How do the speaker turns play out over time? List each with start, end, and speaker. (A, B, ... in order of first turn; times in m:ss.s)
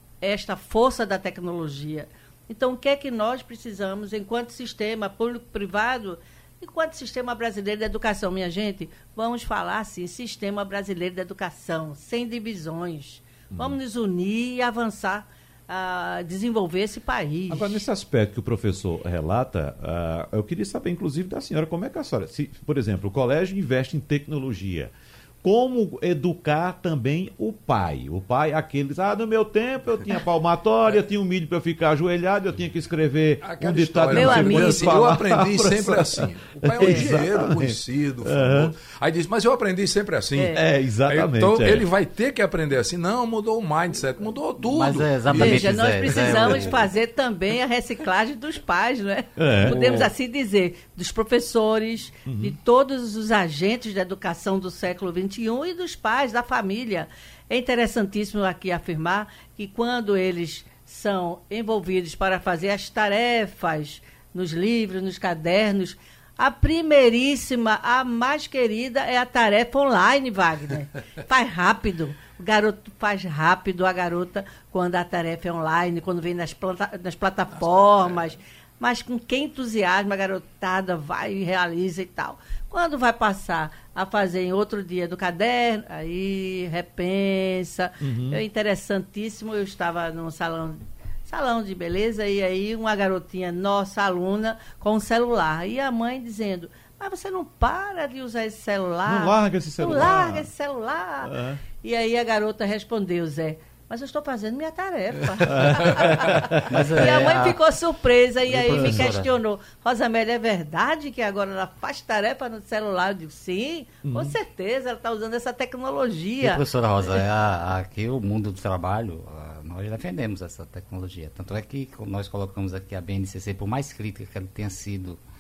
0:00.2-0:17.7 A
0:13.5-0:13.8 B
0:17.5-0:38.8 B
0:33.4-0:46.8 C
0:34.1-0:35.2 A
0:36.8-0:37.1 A
0:40.5-0:41.9 B
0:44.6-0:46.8 D
0:45.4-1:57.3 A
0:49.4-0:50.1 B
0:52.3-0:52.6 B
1:17.5-1:18.3 C
1:28.0-1:28.4 B
1:39.0-1:40.5 B
1:41.2-1:41.6 B
1:45.5-1:47.2 B
1:46.6-1:47.6 D
1:48.5-1:49.3 D
1:48.8-1:49.0 B
1:54.0-1:54.4 B
1:56.4-2:05.2 D